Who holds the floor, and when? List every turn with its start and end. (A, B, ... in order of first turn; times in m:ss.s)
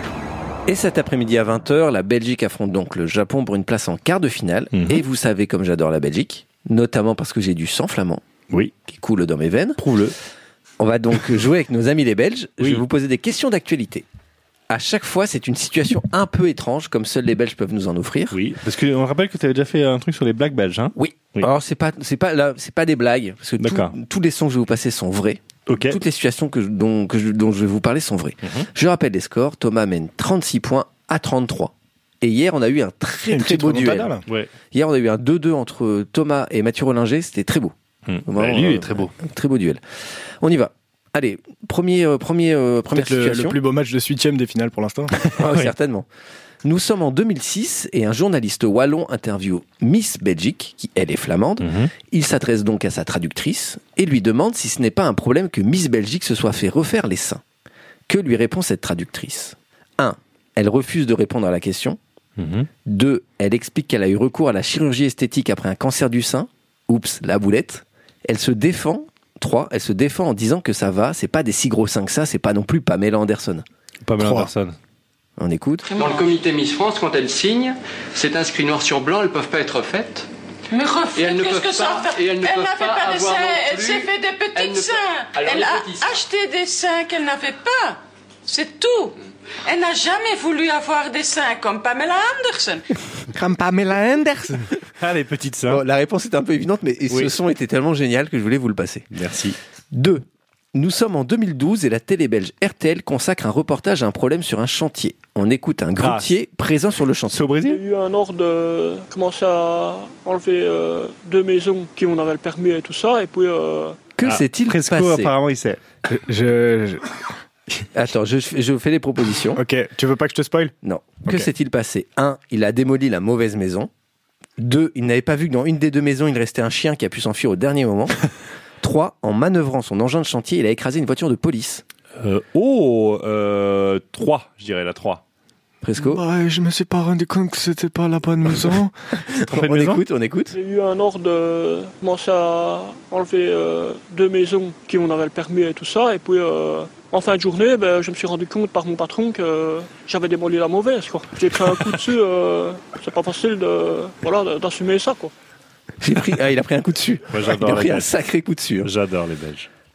0:00.7-0:08.2 A
0:04.7-0:05.0 B
0:08.9-0:09.8 A
0:09.8-0:10.2 B
0:10.8-0:14.0 A
0:14.7-0:18.4 A
0:18.3-0:21.5 B
0:21.0-0:34.1 A
0:23.6-0:24.0 B
0:25.7-0:26.0 B
0:28.4-0:28.7 B
0:33.3-0:34.2 C
0:34.7-0:37.7 A
0:38.1-0:39.1 B
0:38.3-0:39.8 A
0:40.4-0:43.6 A
0:42.9-0:45.1 C
0:45.2-0:45.7 B
0:45.4-0:46.1 A
0:46.6-0:57.4 A
0:51.6-0:51.9 B
0:58.1-1:02.0 A
1:02.4-1:02.7 B
1:02.9-1:13.6 A
1:14.0-1:14.8 B
1:14.2-1:14.5 C
1:15.4-1:15.9 A
1:15.9-1:20.3 D
1:16.0-1:16.3 E
1:20.7-1:32.8 E
1:21.1-1:26.2 D
1:33.3-1:34.6 C
1:35.0-1:35.8 B
1:35.7-1:39.1 A
1:39.1-1:39.6 B
1:39.9-1:40.2 A
1:40.8-1:47.4 A
1:46.0-1:46.3 B
1:47.3-1:47.8 B
1:47.7-1:54.0 F
1:54.2-1:55.3 A
1:54.2-1:55.8 B
1:56.1-1:57.1 C
1:57.9-1:59.6 A
1:59.6-2:00.7 C
2:00.8-2:03.9 A
2:04.6-2:08.3 A
2:08.8-2:11.8 A
2:12.2-2:15.2 B
2:15.8-2:16.2 A
2:16.0-2:18.9 C
2:19.3-2:20.6 A
2:19.4-2:20.0 B
2:20.5-2:35.3 F
2:36.0-2:38.9 A
2:37.3-2:38.1 B
2:38.8-2:39.7 B